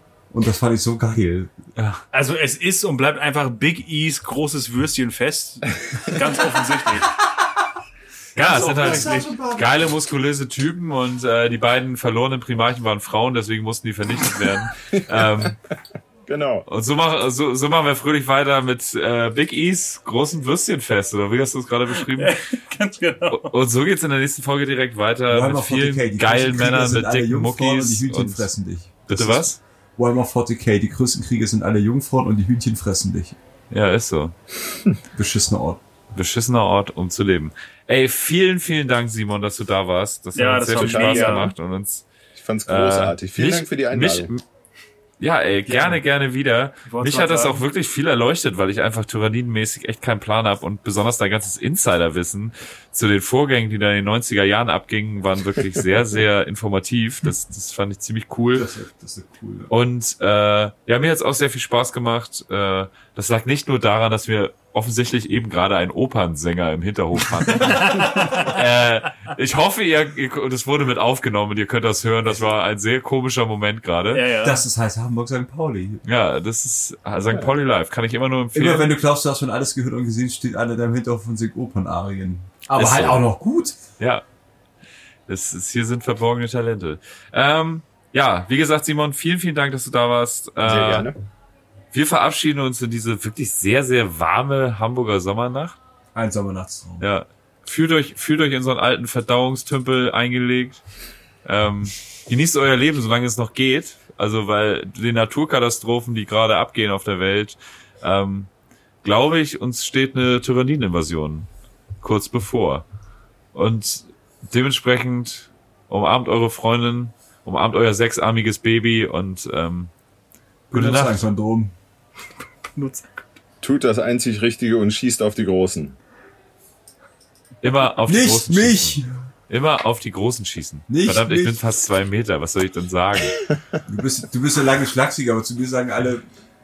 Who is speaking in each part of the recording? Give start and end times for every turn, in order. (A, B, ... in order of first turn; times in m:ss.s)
0:00.3-0:01.5 A
0:01.8-0:02.0 B
0:02.1-0:07.1 C
0:08.3-0:15.6 B
0:08.4-0:09.9 A
0:08.5-0:09.3 C
0:16.3-0:16.6 D
0:16.6-0:22.4 B
0:22.0-0:23.5 C
0:23.3-0:28.5 B
0:25.3-0:33.4 A
0:29.0-0:29.6 B
0:33.7-0:34.3 B
0:35.1-0:35.8 A
0:36.1-0:42.0 B
0:40.3-0:41.5 C
0:40.7-0:41.5 D
0:42.3-0:44.3 D
0:42.6-0:44.4 B
0:45.2-0:58.7 B
0:45.7-0:46.0 C
0:46.8-0:47.6 C
0:58.5-0:59.7 A
0:59.7-1:14.2 B
1:07.7-1:08.4 C
1:14.1-1:14.6 C
1:14.4-1:16.0 A
1:16.0-1:18.9 B
1:18.5-1:23.8 A
1:22.8-1:23.3 B
1:24.0-1:24.2 B
1:25.3-1:31.1 B
1:30.6-1:31.2 D
1:31.9-1:35.8 B
1:36.1-1:37.1 A
1:37.0-1:40.8 B
1:41.4-1:48.5 B
1:49.0-1:51.5 B
1:52.0-1:52.8 B
1:53.5-1:59.9 B
2:00.7-2:01.7 A
2:00.7-2:01.2 B
2:02.7-2:03.2 C
2:03.6-2:06.0 D
2:07.6-2:13.4 B
2:08.1-2:09.2 A
2:10.9-2:11.6 A
2:13.8-2:16.2 A